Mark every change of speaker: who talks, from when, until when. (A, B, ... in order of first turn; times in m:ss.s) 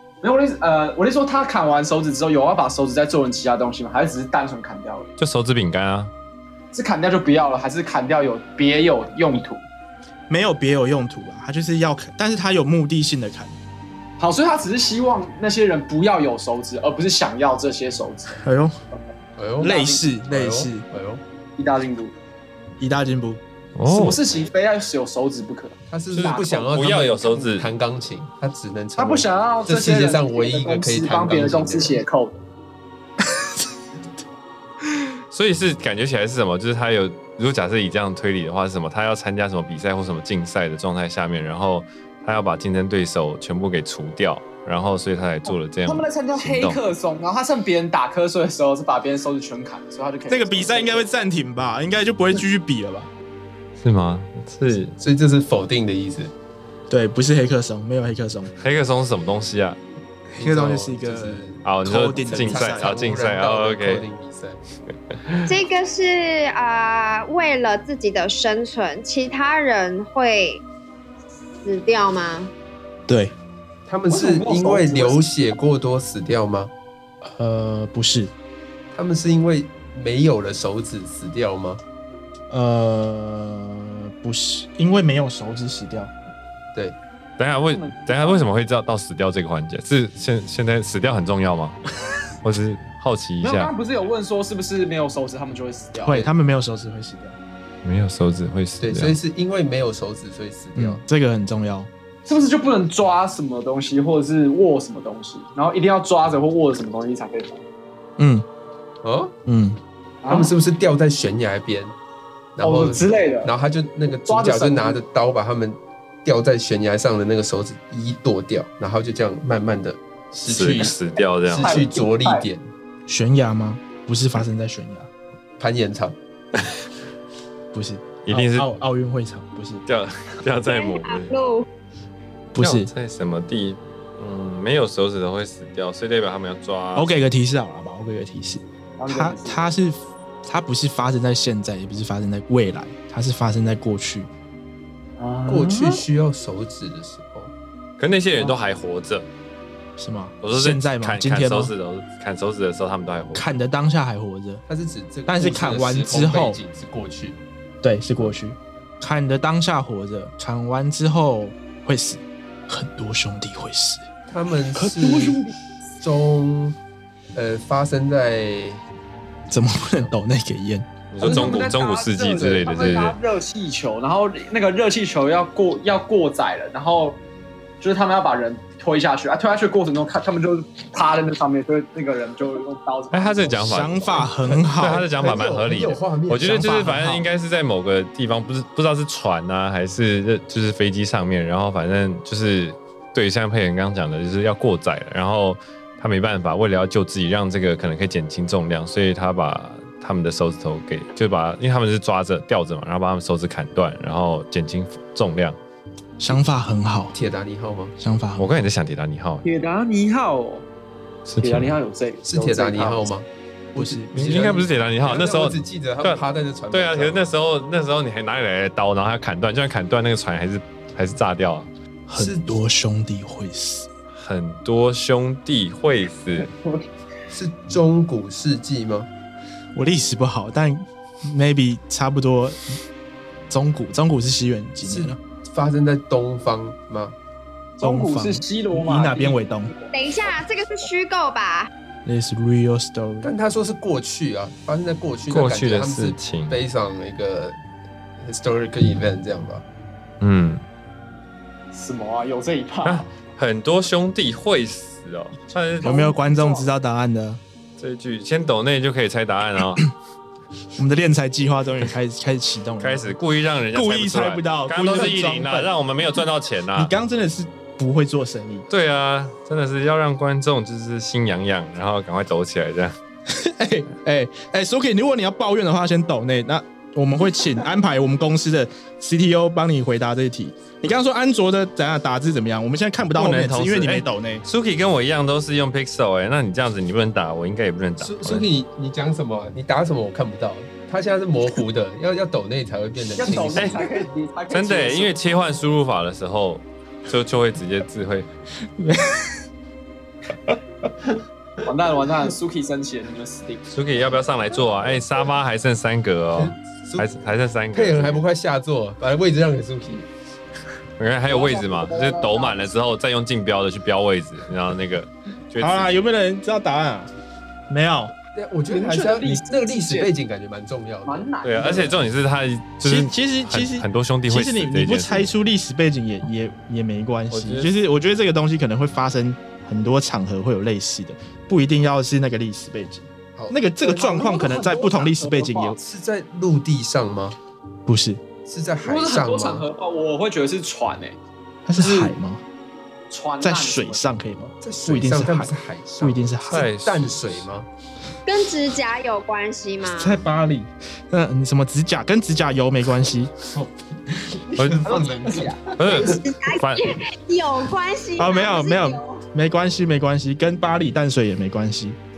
0:00.2-0:05.1 A
0:05.2-0:06.1 B
0:06.7-0:09.6 A
0:10.3-0:13.5 C
0:14.2-0:18.4 A
0:18.4-0:18.8 C
0:19.4-0:21.2 D
0:19.6-0:20.8 C
0:19.6-0:20.0 A
0:21.6-0:22.1 A
0:22.8-0:23.4 C
0:23.8-0:24.2 B
0:23.8-0:26.8 A
0:25.9-0:32.0 D
0:26.1-0:27.7 B
0:29.0-0:32.4 A
0:35.3-0:46.8 B
0:45.8-0:51.0 A
0:50.3-0:53.1 C
0:53.8-0:54.9 B
0:55.0-0:56.3 D
0:56.9-0:58.5 C
0:58.6-0:59.8 B
1:00.3-1:03.0 C
1:00.4-1:04.6 D
1:01.6-1:04.0 B
1:05.1-1:05.5 B
1:05.4-1:10.6 E
1:11.6-1:12.5 E
1:13.1-1:13.3 C
1:13.9-1:16.7 D
1:14.1-1:15.2 A
1:17.2-1:18.3 C
1:18.9-1:21.8 D
1:22.5-1:26.1 C
1:27.4-1:31.8 B
1:27.7-1:28.5 A
1:32.4-1:33.7 B
1:33.4-1:36.2 A
1:36.0-1:37.4 C
1:37.8-1:39.2 B
1:38.8-1:41.0 D
1:40.8-1:41.9 C
1:42.2-1:47.6 A
1:48.2-1:48.4 C
1:49.0-1:49.3 D
1:49.4-1:49.8 C
1:50.2-1:50.5 A
1:50.3-1:51.9 D
1:52.6-2:02.7 D
1:52.6-1:53.5 A
1:54.2-1:55.0 A
2:00.4-2:01.8 B
2:01.6-2:02.4 A
2:03.1-2:05.1 C
2:05.6-2:06.2 D
2:07.7-2:09.8 C
2:08.2-2:08.7 B
2:09.8-2:11.4 B
2:10.7-2:11.6 E
2:12.5-2:12.9 C
2:12.6-2:17.1 B
2:16.9-2:24.3 C
2:19.0-2:19.6 A
2:25.2-2:26.0 A
2:25.5-2:27.5 D
2:28.0-2:29.3 B
2:30.0-2:31.7 C
2:30.4-2:33.4 B
2:33.3-2:34.6 C
2:34.7-2:37.4 D
2:35.3-2:36.6 C
2:37.8-2:44.0 C
2:44.3-2:45.4 D
2:44.9-2:45.3 C
2:44.9-2:45.5 A
2:46.0-2:46.8 D
2:47.3-2:48.8 D
2:49.5-2:50.9 C
2:51.1-2:53.2 B
2:51.2-2:57.2 A
2:51.2-2:53.1 D
2:57.8-3:03.7 A
3:03.1-3:04.2 B
3:03.6-3:05.0 C
3:04.2-3:06.6 D
3:04.8-3:25.6 B
3:06.4-3:07.2 C
3:26.2-3:27.2 C
3:27.1-3:27.9 D
3:28.0-3:28.6 C
3:28.4-3:29.4 B
3:29.4-3:30.6 A
3:31.2-3:31.8 B
3:31.4-3:33.1 A
3:32.2-3:37.3 D
3:33.7-3:34.5 C
3:34.1-3:41.7 B
3:42.1-3:43.9 C
3:42.2-3:42.5 D
3:44.1-3:46.5 B
3:46.4-3:46.8 A
3:47.3-3:49.1 D
3:49.7-3:52.8 C
3:53.5-3:55.2 C
3:54.8-3:57.1 D
3:57.8-3:59.9 A
3:57.8-3:59.7 C
3:59.9-4:01.7 E
4:02.0-4:03.3 C
4:03.2-4:07.6 D
4:05.3-4:06.6 B
4:08.2-4:09.6 D
4:10.2-4:10.6 B
4:11.7-4:13.1 A
4:12.8-4:16.0 B
4:15.8-4:17.4 C
4:15.8-4:16.7 A
4:17.8-4:19.8 B
4:20.8-4:23.2 C
4:22.8-4:26.9 B
4:23.7-4:25.7 C
4:26.7-4:28.7 C
4:28.7-4:33.0 B
4:33.3-4:44.4 C
4:43.1-4:48.5 B
4:48.0-4:54.0 D
4:53.1-4:55.1 A
4:53.6-4:53.8 B
4:54.5-4:58.3 B
4:58.8-4:59.4 C
5:01.6-5:03.6 A
5:03.7-5:08.2 B
5:06.3-5:10.1 D
5:11.0-5:16.1 B
5:11.3-5:12.7 A
5:15.6-5:17.1 C
5:17.7-5:18.1 C
5:18.3-5:21.9 D
5:18.7-5:20.1 A
5:21.0-5:22.0 A
5:21.4-5:25.3 B
5:22.8-5:35.8 C
5:27.3-5:27.7 B
5:33.4-5:33.6 D
5:33.8-5:35.8 A
5:35.8-5:37.4 D
5:37.9-5:38.2 C
5:38.4-5:39.7 D
5:38.8-5:41.2 A
5:41.6-5:42.4 C
5:41.8-5:42.1 A
5:43.1-5:44.0 A
5:43.4-5:46.7 C
5:44.6-5:47.7 D
5:46.5-5:47.2 B
5:48.2-5:50.2 E
5:49.8-5:53.3 C
5:53.5-5:56.2 D
5:54.8-5:55.7 A
5:55.8-5:57.0 B
5:55.9-5:59.2 E
5:58.2-6:02.0 C